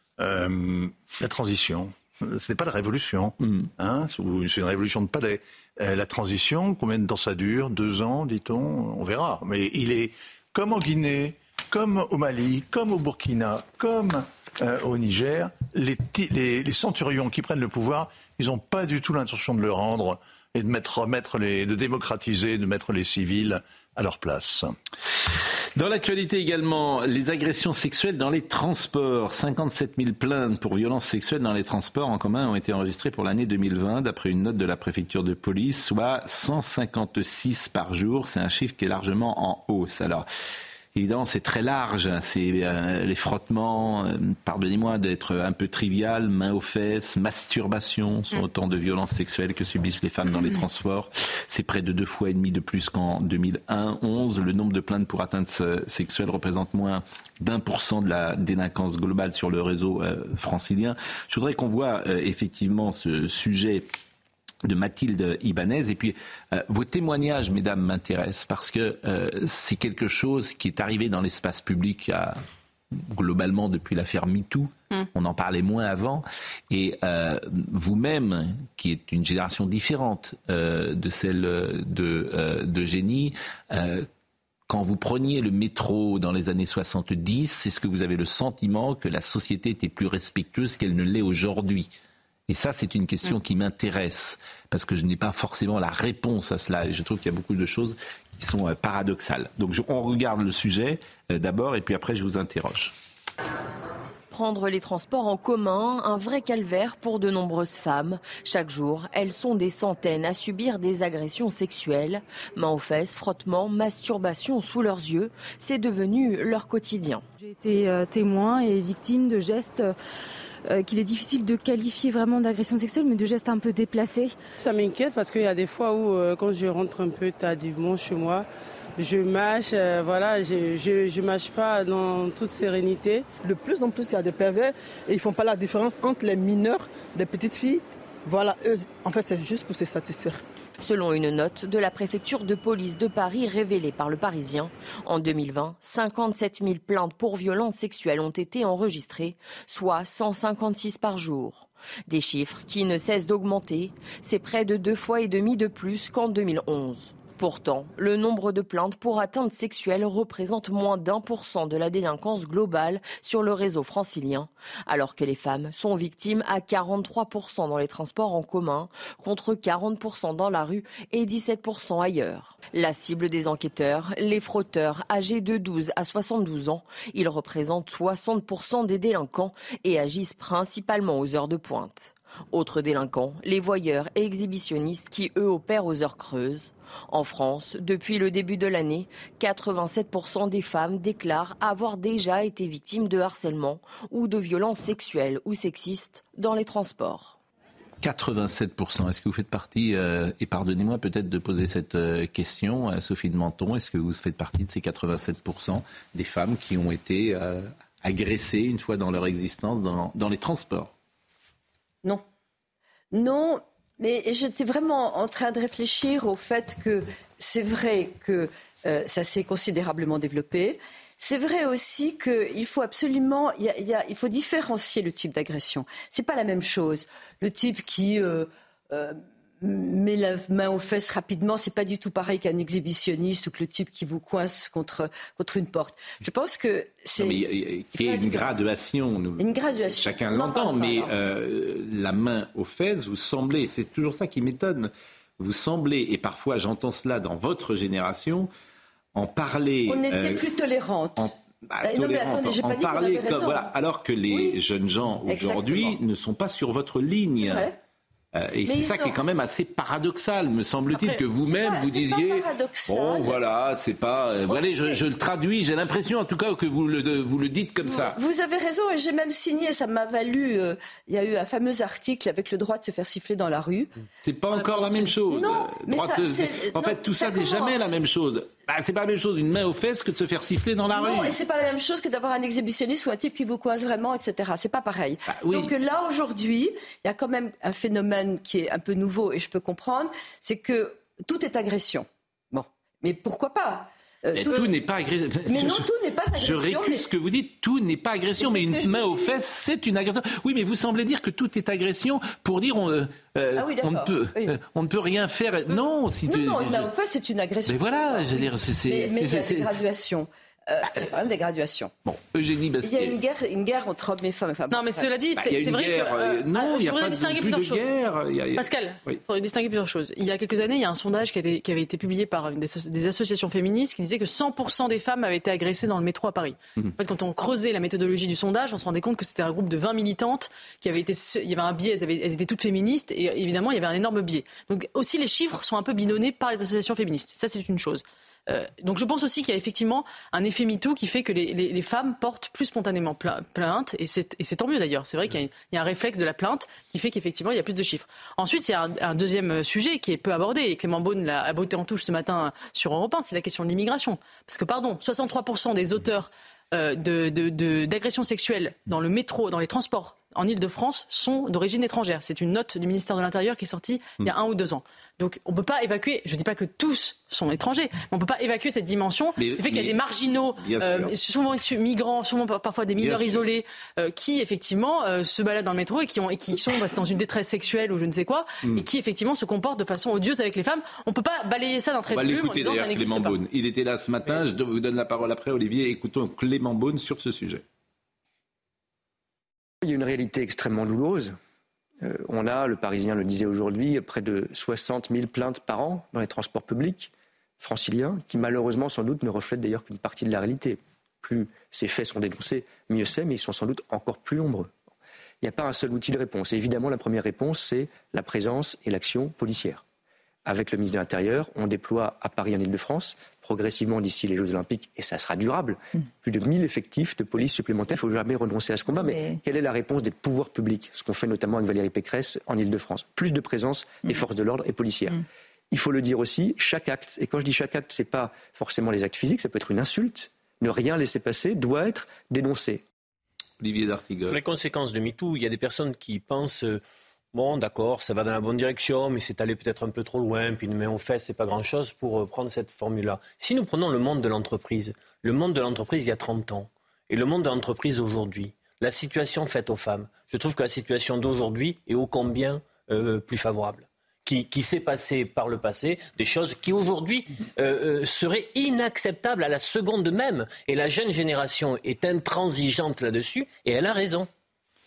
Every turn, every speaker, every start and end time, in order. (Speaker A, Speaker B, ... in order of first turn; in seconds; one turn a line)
Speaker A: 0.2-24.7
Speaker B: 3.4-3.7
Speaker B: 25.8-40.3
Speaker B: 41.0-63.9
Speaker B: 64.7-72.4
Speaker B: 72.9-84.1
Speaker B: 84.7-92.0
Speaker B: 92.5-102.9
Speaker C: 104.3-117.2
Speaker D: 117.4-120.0
Speaker D: 120.7-124.3
Speaker E: 124.6-133.3
Speaker F: 133.4-140.4
Speaker C: 140.8-197.4
Speaker B: 198.0-210.9
Speaker G: 213.1-237.4
Speaker B: 237.2-248.5
Speaker G: 237.9-238.6
Speaker G: 239.4-241.1
Speaker B: 249.2-250.5
Speaker G: 249.9-251.3
Speaker B: 251.2-257.7
Speaker G: 251.8-253.7
Speaker G: 254.3-254.6
Speaker G: 255.3-256.0
Speaker G: 257.4-257.8
Speaker B: 258.3-268.2
Speaker G: 258.6-259.2
Speaker G: 260.9-263.4
Speaker G: 264.5-265.0
Speaker G: 267.9-273.9
Speaker B: 274.2-281.4
Speaker G: 274.5-278.0
Speaker G: 280.9-294.7
Speaker B: 285.3-285.7
Speaker B: 294.3-306.9
Speaker G: 295.5-297.1
Speaker G: 298.4-299.4
Speaker G: 303.6-304.5
Speaker G: 305.7-311.9
Speaker B: 307.7-309.7
Speaker B: 312.1-313.2
Speaker G: 312.8-315.1
Speaker H: 314.7-317.9
Speaker B: 315.4-319.2
Speaker H: 318.6-383.4
Speaker B: 369.4-371.1
Speaker B: 373.0-373.4
Speaker B: 382.1-387.6
Speaker I: 389.8-391.4
Speaker I: 392.0-404.7
Speaker I: 405.4-409.8
Speaker I: 410.4-432.8
Speaker B: 433.6-434.4
Speaker J: 434.3-436.8
Speaker J: 437.3-464.3